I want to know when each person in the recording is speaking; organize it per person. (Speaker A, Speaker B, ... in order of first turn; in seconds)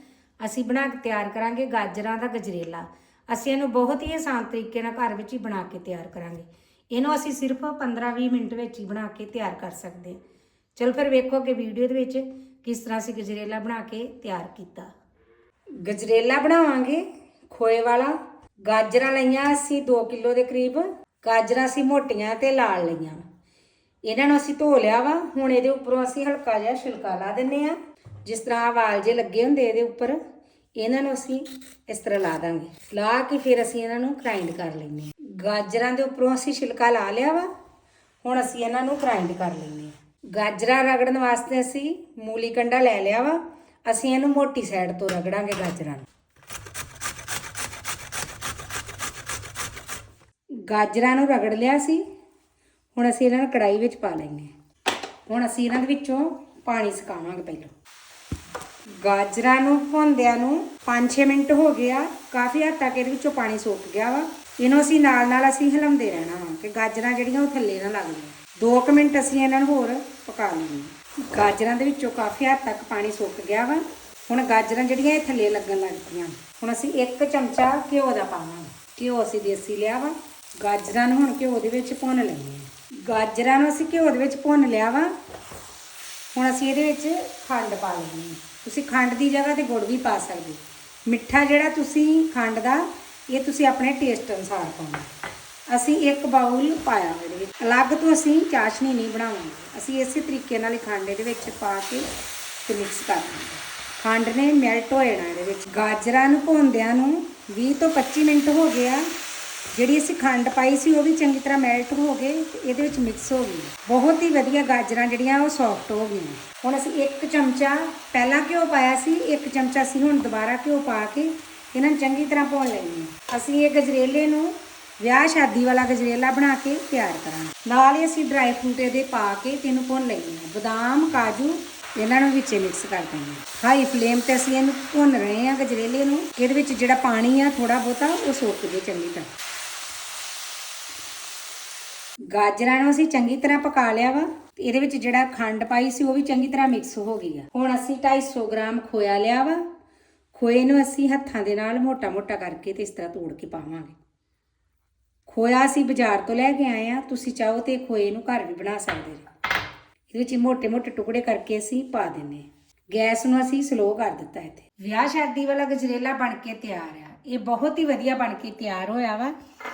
Speaker A: 0.4-10.2, 10.8-14.9, 15.8-18.1, 18.6-23.2, 24.1-30.2, 30.8-37.5, 38.2-46.0, 50.7-52.0, 52.9-54.5, 55.3-57.7, 59.0-85.1, 86.3-95.1, 95.7-102.0, 102.6-109.1, 109.7-139.3, 142.3-149.6, 150.3-154.0, 155.3-159.3, 160.1-169.3